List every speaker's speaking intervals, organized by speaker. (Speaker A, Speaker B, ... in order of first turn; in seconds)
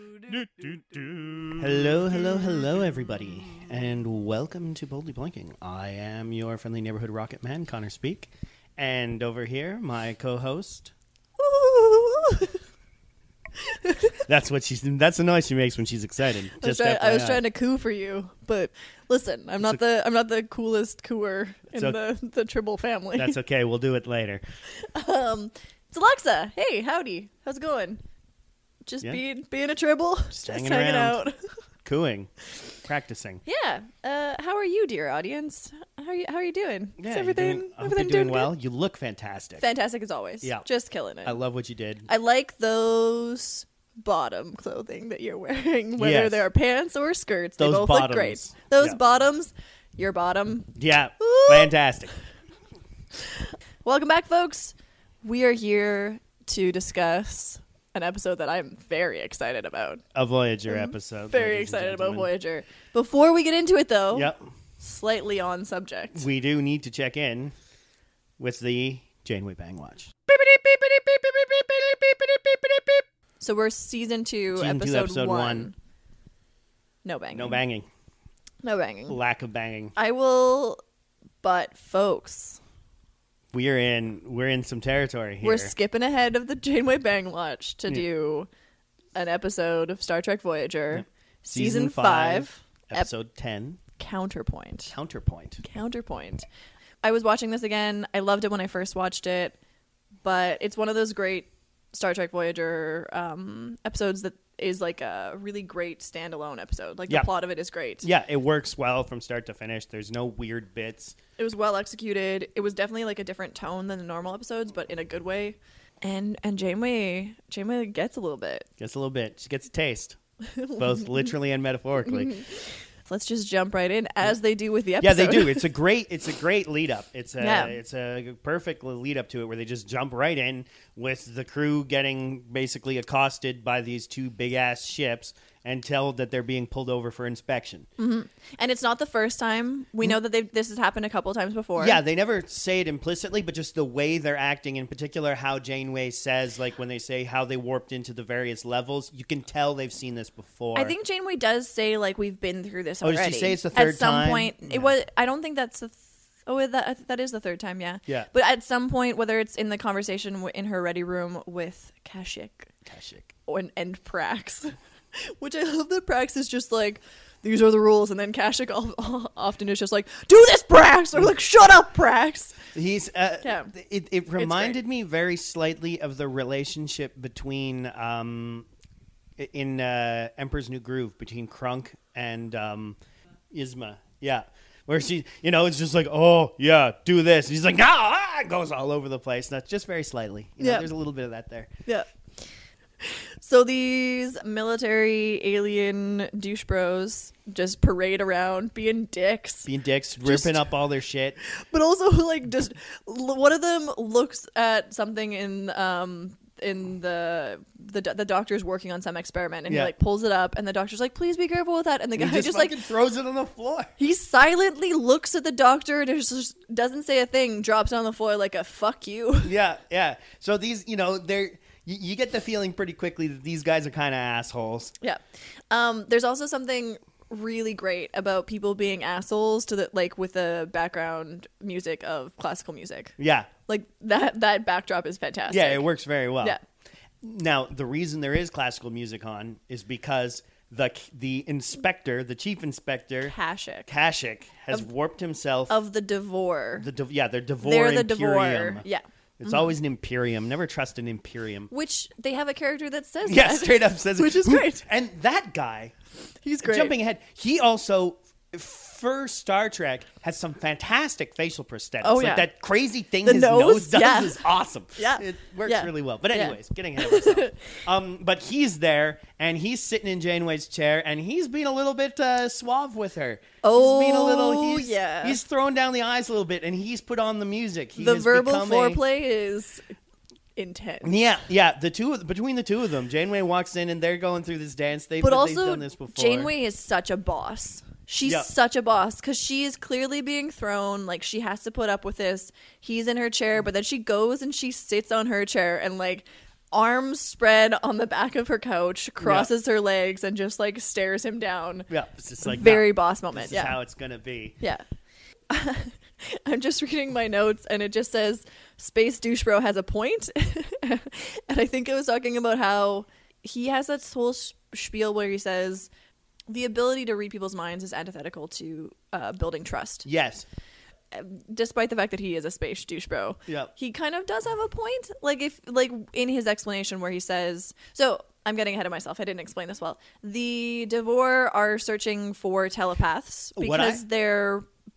Speaker A: 1.5-10.9, 14.3-17.4, 21.7-22.0, 23.2-24.4, 30.3-31.2, 31.9-32.3, 32.8-33.4, 37.0-39.6, 41.2-42.1, 46.0-46.4, 47.6-49.0, 50.8-52.1, 60.1-62.3, 64.1-64.4, 66.2-67.5, 68.4-73.0, 74.5-75.7, 77.3-77.9, 79.1-79.9, 83.5-85.7, 90.9-93.8, 94.9-95.6, 108.0-111.2, 118.8-120.2, 120.8-122.4, 125.0-137.9, 141.8-150.9, 153.0-154.9, 162.9-163.3, 172.7-178.7, 179.4-183.0, 183.5-191.7, 199.7-201.4, 212.2-213.9, 219.4-224.9, 233.2-233.5, 235.5-236.6, 237.2-243.3, 243.9-245.8, 246.8-248.9, 249.4-251.7, 253.2-255.9, 256.6-279.0, 281.0-286.5, 299.2-299.5, 301.9-304.6, 320.1-320.5, 333.6-334.0
Speaker B: 11.4-12.6, 13.6-14.2, 16.6-23.4, 24.7-28.0, 28.9-31.4, 33.5-38.5, 39.6-41.4, 42.1-51.7, 53.2-60.0, 60.7-66.2, 73.4-75.7, 77.0-77.6, 78.6-79.2, 80.0-80.8, 81.4-82.6, 85.4-88.5, 89.2-93.1, 94.0-94.9, 95.6-96.5, 97.0-99.6, 100.2-108.1, 111.4-118.7, 120.5-121.3, 122.0-125.7, 127.4-127.8, 138.0-142.0, 150.8-162.7, 163.5-172.7, 173.4-173.7, 174.4-174.8, 190.6-190.9, 193.0-199.7, 200.2-200.7, 201.4-212.8, 214.0-219.5, 225.0-235.9, 243.2-243.9, 245.7-246.9, 247.6-249.6, 251.7-254.9, 256.4-256.9, 262.0-262.5, 263.2-264.4, 265.0-267.7, 273.6-275.4, 278.0-279.9, 280.6-281.1, 285.2-301.9, 302.4-303.8, 305.5-315.9, 316.5-320.1, 321.1-334.6